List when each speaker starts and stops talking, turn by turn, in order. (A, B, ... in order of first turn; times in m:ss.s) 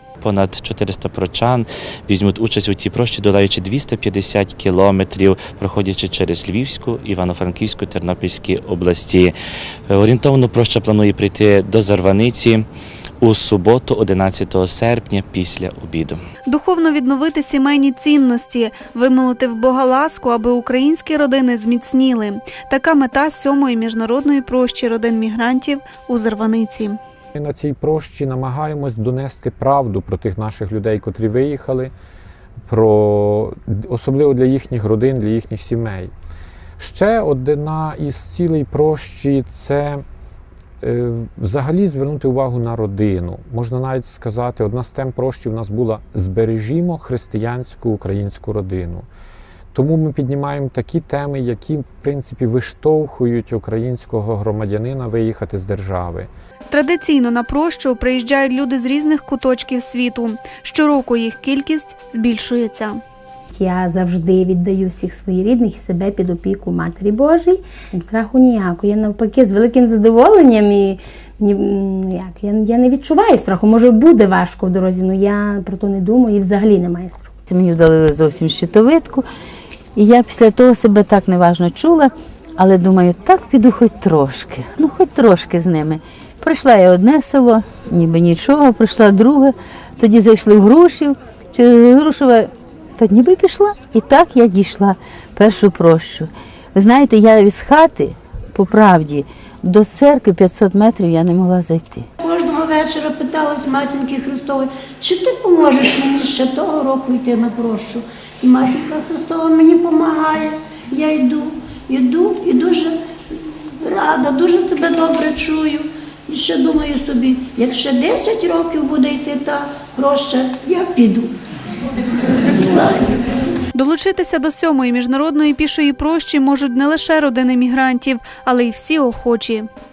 0:00.2-0:09.4 A
0:09.9-0:12.7 A
0:13.2-0:16.2 A
0:16.5-0:27.0 B
0:27.4-0:31.9 C
0:32.7-0:36.1 C
0:36.8-0:40.0 C
0:40.8-0:49.1 C
0:49.7-0:56.3 C
0:56.7-1:03.0 B
1:03.5-1:17.3 D
1:17.5-1:19.3 E
1:20.0-1:42.1 E
1:42.2-2:01.3 F
2:02.3-2:03.3 F
2:03.7-2:09.7 B